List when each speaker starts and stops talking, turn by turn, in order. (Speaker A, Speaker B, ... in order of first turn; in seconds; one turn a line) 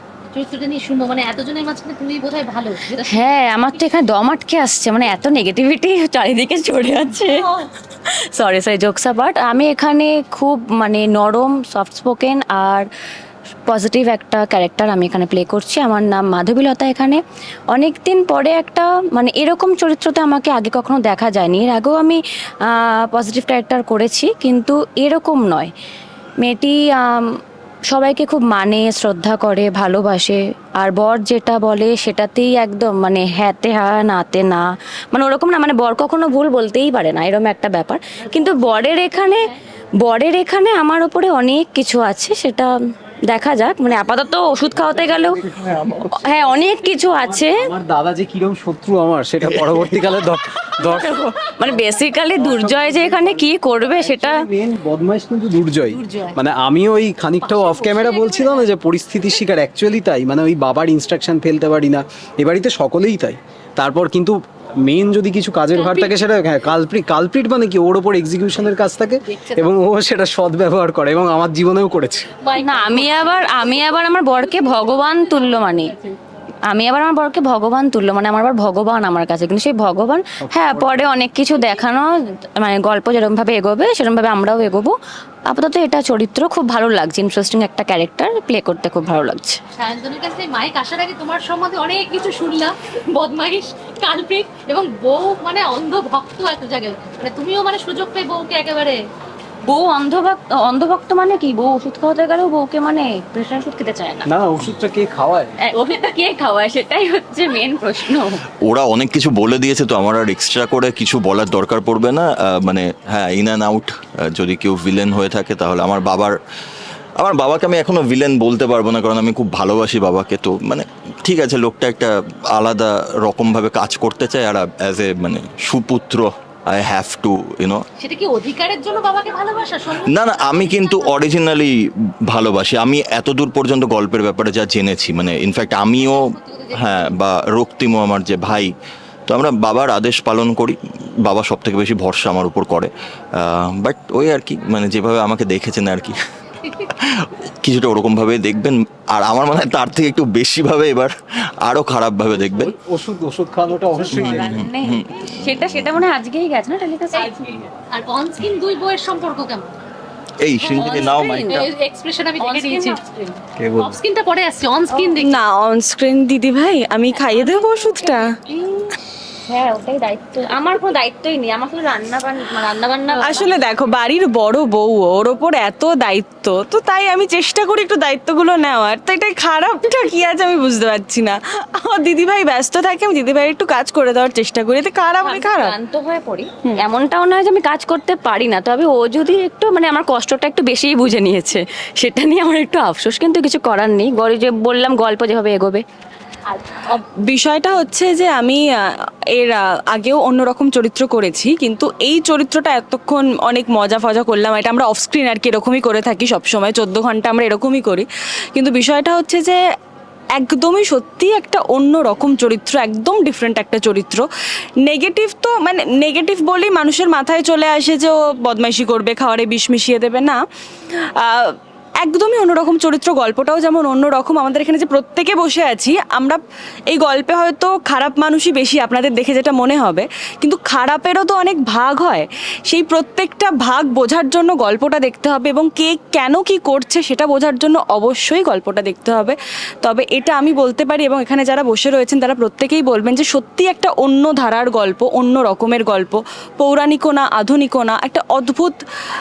Speaker A: 0.3-3.9
Speaker B: 3.0-7.5
Speaker A: 7.2-7.5
Speaker B: 8.1-12.9
Speaker B: 13.7-17.2
Speaker B: 17.7-25.7
Speaker B: 26.4-27.4
Speaker B: 27.9-39.4
Speaker A: 38.2-39.6
Speaker B: 40.0-42.7
Speaker B: 43.3-45.4
Speaker C: 44.8-46.1
Speaker B: 46.1-47.7
Speaker D: 47.5-51.3
Speaker C: 49.4-50.0
Speaker B: 50.8-54.4
Speaker D: 52.4-72.3
Speaker A: 55.9-56.4
Speaker A: 57.4-58.7
Speaker A: 65.7-66.3
Speaker A: 69.2-69.8
Speaker A: 72.4-73.3
Speaker B: 72.6-75.9
Speaker B: 76.7-85.0
Speaker D: 80.4-81.1
Speaker B: 85.5-89.6
Speaker A: 89.8-99.0
Speaker B: 99.7-104.3
Speaker D: 104.2-105.6
Speaker B: 105.7-108.4
Speaker C: 108.6-116.3
Speaker C: 117.2-127.8
Speaker A: 128.0-131.2
Speaker C: 130.0-138.8
Speaker A: 136.0-137.1
Speaker C: 139.3-146.2
Speaker C: 146.9-152.7
Speaker D: 152.4-154.6
Speaker C: 154.1-156.1
Speaker B: 154.1-157.3
Speaker A: 157.2-159.7
Speaker C: 160.4-161.7
Speaker A: 160.6-165.4
Speaker B: 160.8-161.6
Speaker B: 162.4-163.0
Speaker D: 163.6-164.0
Speaker E: 165.2-168.3
Speaker B: 167.1-168.9
Speaker B: 169.5-173.6
Speaker E: 173.1-185.8
Speaker B: 185.2-195.8
Speaker A: 196.5-196.9
Speaker E: 196.9-198.6
Speaker E: 199.3-209.6
Speaker E: 210.4-214.2
Speaker E: 214.8-220.4
Speaker E: 221.2-248.8